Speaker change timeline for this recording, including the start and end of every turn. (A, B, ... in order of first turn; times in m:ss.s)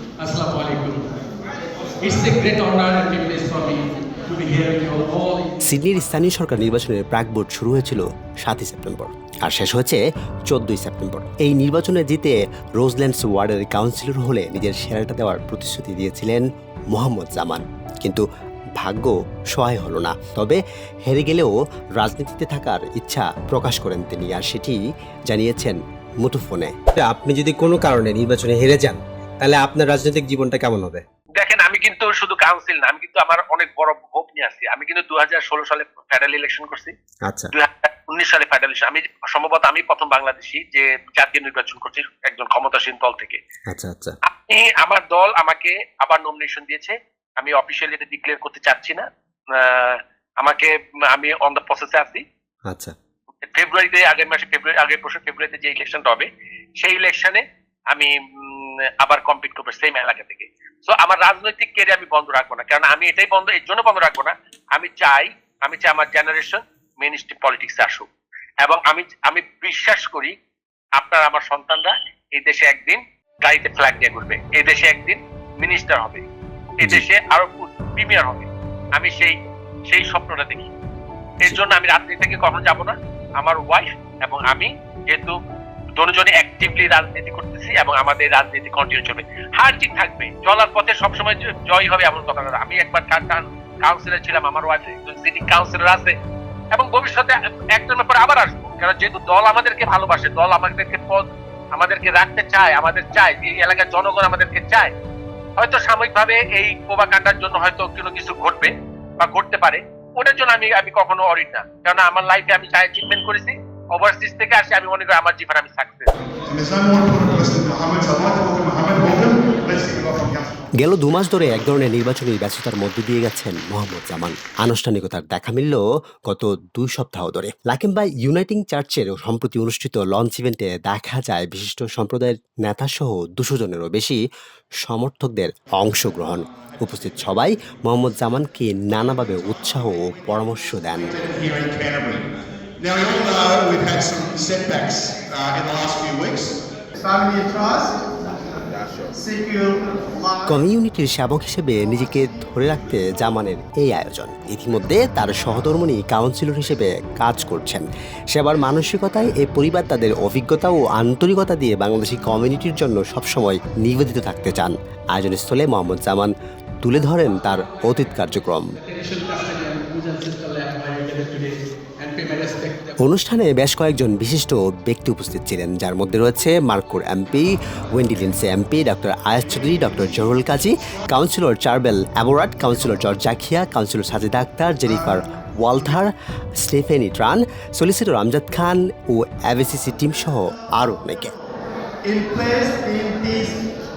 0:00.2-0:01.0 A
0:02.0-0:05.5 A
0:05.6-0:18.2 B
0:18.8-0:31.0 B
0:31.4-0:36.9 C
0:37.2-0:37.5 B
0:37.5-0:43.4 C
0:43.7-0:44.2 B
0:44.3-0:52.2 C
0:52.7-0:52.9 B
0:53.5-1:08.1 C
1:08.6-1:10.3 C
1:11.0-1:16.2 C
1:16.8-1:19.4 C
1:19.9-1:20.7 C
1:21.4-1:25.3 C
1:26.0-1:36.1 C
1:36.7-1:44.9 C
1:45.6-1:56.1 C
1:56.5-2:00.6 D
2:00.8-2:14.2 B
2:14.8-2:21.1 B
2:21.1-2:22.3 D
2:22.8-2:26.6 D
2:27.0-2:28.0 E
2:29.1-2:30.6 E
2:30.4-2:46.3 B
2:46.8-2:48.6 B
2:48.8-2:53.0 A
2:53.0-3:11.3 B
3:12.0-3:13.6 E